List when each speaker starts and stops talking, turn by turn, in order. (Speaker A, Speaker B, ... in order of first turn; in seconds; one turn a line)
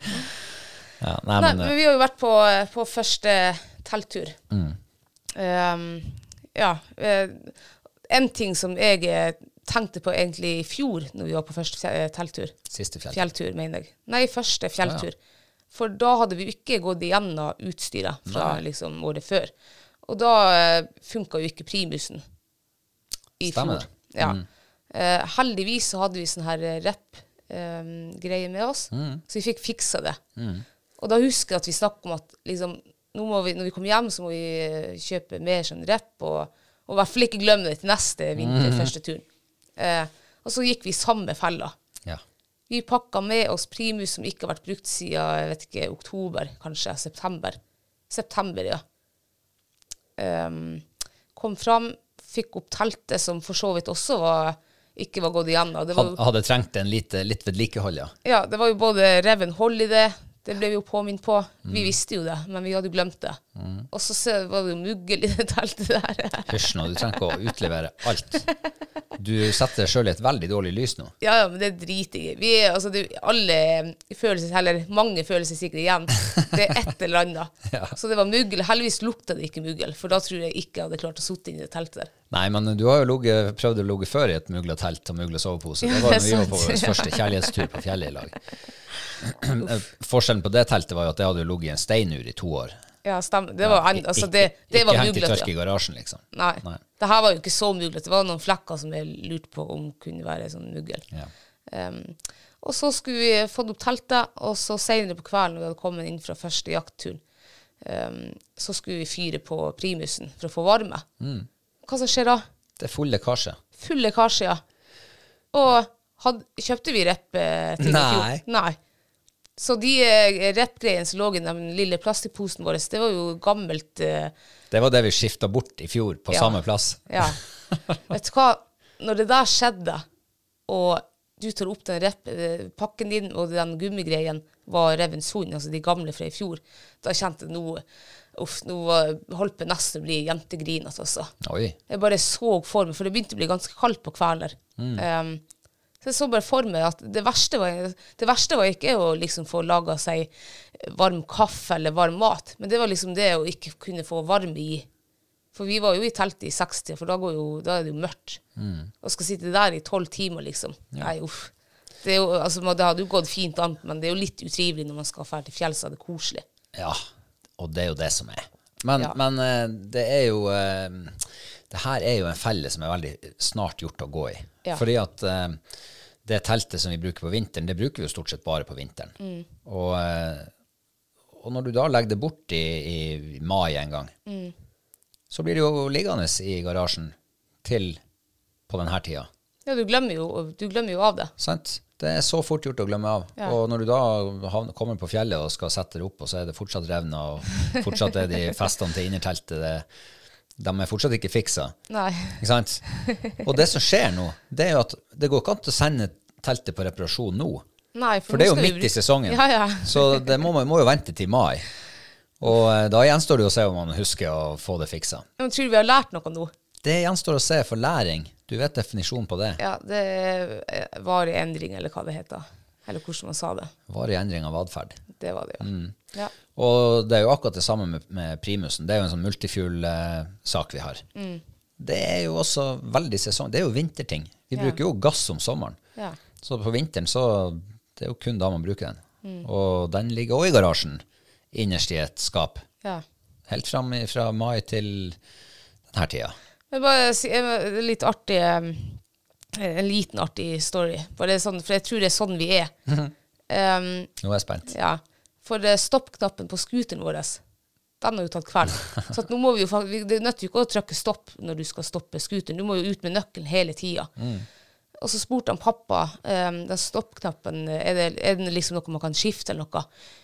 Speaker A: 1.0-1.7
Speaker B: 1.4-4.4
Speaker A: 4.5-4.8
Speaker B: 5.3-7.6
Speaker B: 8.1-12.5
Speaker A: 12.7-13.3
Speaker B: 13.1-15.2
Speaker B: 15.7-19.5
Speaker A: 18.3-18.6
Speaker B: 20.0-22.2
Speaker B: 23.4-24.4
Speaker A: 23.4-24.5
Speaker B: 24.9-30.2
Speaker A: 28.9-29.2
Speaker A: 30.4-30.6
Speaker B: 31.0-39.2
Speaker A: 38.4-38.9
Speaker B: 39.8-41.7
Speaker B: 42.7-47.6
Speaker B: 48.1-48.8
Speaker B: 50.2-56.2
Speaker A: 55.9-58.1
Speaker B: 58.2-67.3
Speaker A: 61.6-62.0
Speaker A: 63.6-63.9
Speaker A: 66.5-68.5
Speaker A: 69.2-71.1
Speaker B: 71.2-82.1
Speaker A: 77.7-78.0
Speaker A: 82.3-88.4
Speaker B: 85.8-87.5
Speaker A: 89.2-92.8
Speaker B: 93.0-95.5
Speaker A: 93.6-96.8
Speaker B: 96.3-101.1
Speaker B: 101.7-107.2
Speaker B: 107.8-111.0
Speaker A: 111.2-111.5
Speaker B: 111.8-112.4
Speaker A: 112.8-113.6
Speaker B: 113.8-114.6
Speaker B: 115.5-118.8
Speaker A: 117.8-118.4
Speaker B: 119.6-124.3
Speaker A: 124.7-127.9
Speaker B: 126.3-127.4
Speaker B: 128.1-130.0
Speaker B: 130.7-137.8
Speaker B: 138.3-141.3
Speaker A: 141.4-141.8
Speaker B: 141.9-145.4
Speaker A: 144.8-145.1
Speaker B: 146.0-154.9
Speaker B: 155.5-158.4
Speaker A: 158.6-158.9
Speaker B: 159.0-161.5
Speaker B: 162.0-166.4
Speaker A: 166.7-167.1
Speaker A: 167.6-175.6
Speaker A: 176.2-180.5
Speaker B: 179.2-179.5
Speaker A: 181.3-184.1
Speaker B: 184.3-184.5
Speaker A: 185.3-188.0
Speaker A: 188.7-189.3
Speaker B: 189.7-191.3
Speaker A: 191.4-199.9
Speaker A: 200.6-201.8
Speaker B: 201.9-202.4
Speaker A: 202.4-207.7
Speaker B: 202.9-203.3
Speaker B: 207.9-210.4
Speaker A: 208.3-211.7
Speaker A: 212.4-215.3
Speaker B: 215.4-216.5
Speaker A: 216.8-219.6
Speaker B: 219.6-223.7
Speaker A: 223.9-225.0
Speaker B: 225.2-226.3
Speaker A: 225.6-226.0
Speaker A: 226.5-231.1
Speaker B: 231.2-231.4
Speaker A: 231.8-235.8
Speaker B: 234.5-234.8
Speaker A: 236.4-242.7
Speaker A: 243.5-245.2
Speaker A: 245.9-246.3
Speaker B: 246.7-249.0
Speaker B: 249.5-252.7
Speaker A: 252.9-253.1
Speaker B: 253.5-254.1
Speaker A: 254.2-254.7
Speaker B: 254.7-257.4
Speaker B: 258.0-264.1
Speaker A: 264.2-264.5
Speaker B: 265.0-269.9